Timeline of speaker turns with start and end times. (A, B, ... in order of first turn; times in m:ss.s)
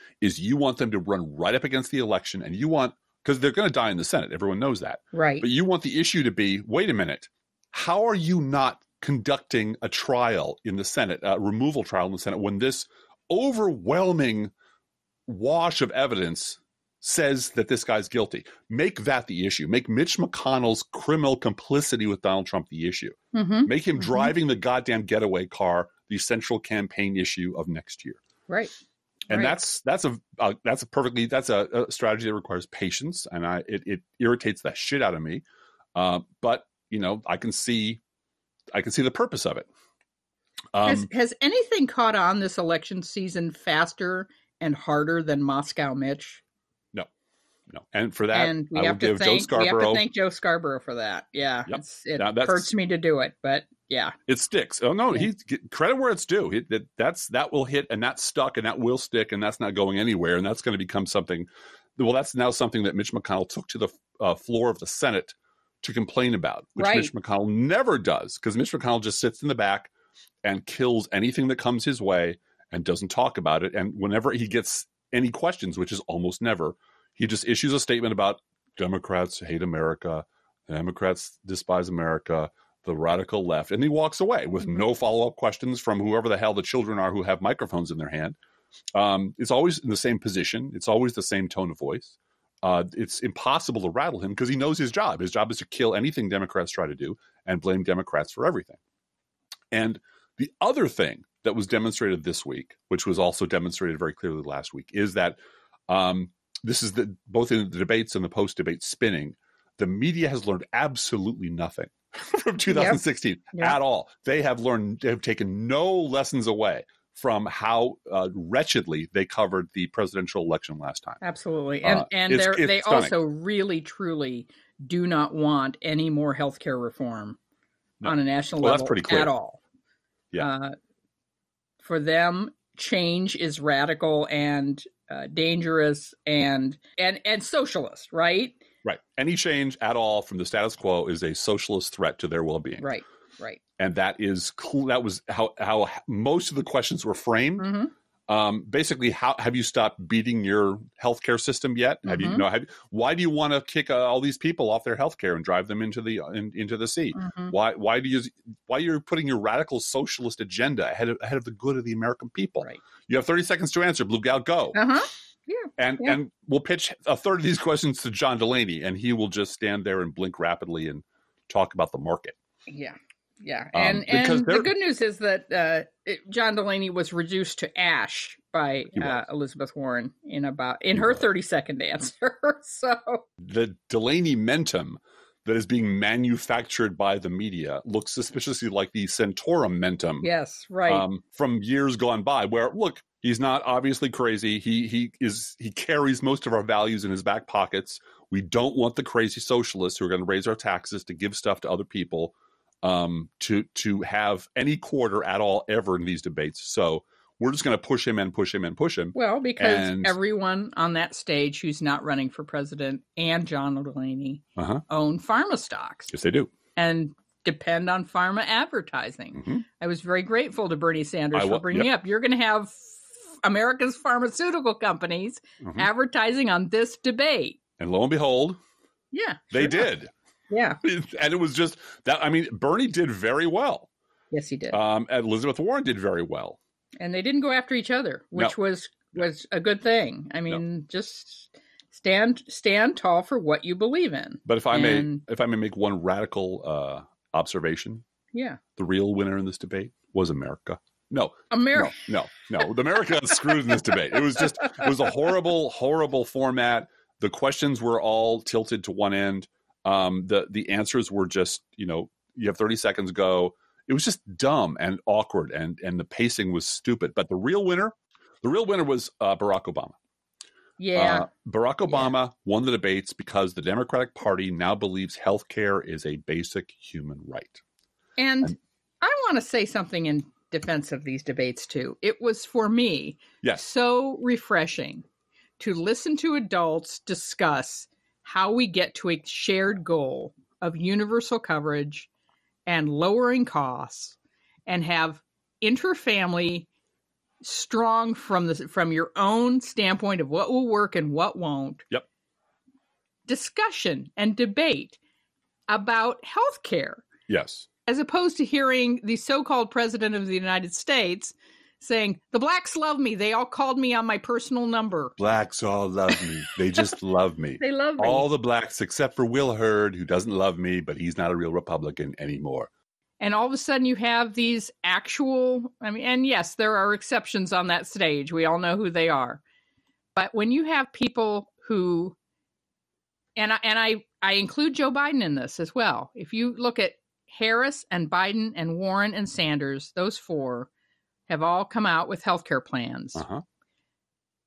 0:00.2-0:14.5 A
0:05.1-0:05.4 B
0:15.3-0:28.2 A
0:23.3-0:24.3 B
0:28.5-0:28.7 B
0:29.3-0:35.4 A
0:29.3-0:29.6 B
0:35.9-0:38.0 A
0:38.7-0:39.7 A
0:40.7-0:41.1 A
0:40.8-0:46.4 B
0:47.7-0:50.0 A
0:48.3-0:54.1 B
0:51.7-0:52.7 A
0:54.3-1:09.9 A
1:06.8-1:07.1 B
1:10.4-1:28.4 A
1:28.9-1:38.8 A
1:39.7-2:01.2 A
1:52.7-1:53.0 B
2:01.2-2:07.4 B
2:01.8-2:03.2 A
2:08.0-2:09.3 A
2:08.0-2:09.6 B
2:10.4-2:10.7 B
2:11.8-2:18.6 B
2:18.8-2:22.9 A
2:22.8-2:23.6 B
2:23.8-2:27.7 A
2:27.6-2:27.9 B
2:28.3-2:44.8 A
2:32.0-2:32.4 B
2:37.2-2:37.5 B
2:44.7-2:46.2 B
2:45.8-2:52.4 A
2:52.7-3:03.2 B
2:53.7-2:54.7 A
2:58.9-2:59.2 A
3:01.0-3:01.2 A
3:03.4-3:10.3 A
3:10.2-3:11.0 B
3:10.9-3:30.1 A
3:29.1-3:36.1 B
3:34.6-3:34.8 A
3:36.1-3:36.5 A
3:36.8-3:47.6 B
3:39.4-3:39.6 A
3:41.3-3:41.9 A
3:45.6-3:45.9 A
3:47.8-3:48.6 A
3:49.1-3:49.9 B
3:49.5-3:50.1 A
3:50.5-3:50.8 B
3:50.8-3:53.9 A
3:54.3-3:54.8 B
3:54.7-3:56.6 A
3:57.0-4:05.2 B
4:04.4-4:08.0 A
4:08.3-4:08.6 B
4:08.8-4:30.0 A
4:11.5-4:12.0 B
4:30.8-4:31.3 B
4:31.0-4:37.6 A
4:38.2-4:45.0 B
4:43.4-4:43.7 A
4:45.6-4:52.1 B
4:52.6-4:56.7 B
4:57.4-5:01.8 B
5:03.3-5:05.0 B
5:05.7-5:07.0 B
5:07.3-5:07.7 A
5:07.8-5:15.1 B
5:15.2-5:22.7 A
5:17.6-5:18.3 B
5:23.2-5:29.4 B
5:30.1-5:32.2 B
5:33.4-5:40.7 B
5:41.3-5:43.2 B
5:43.1-5:43.4 A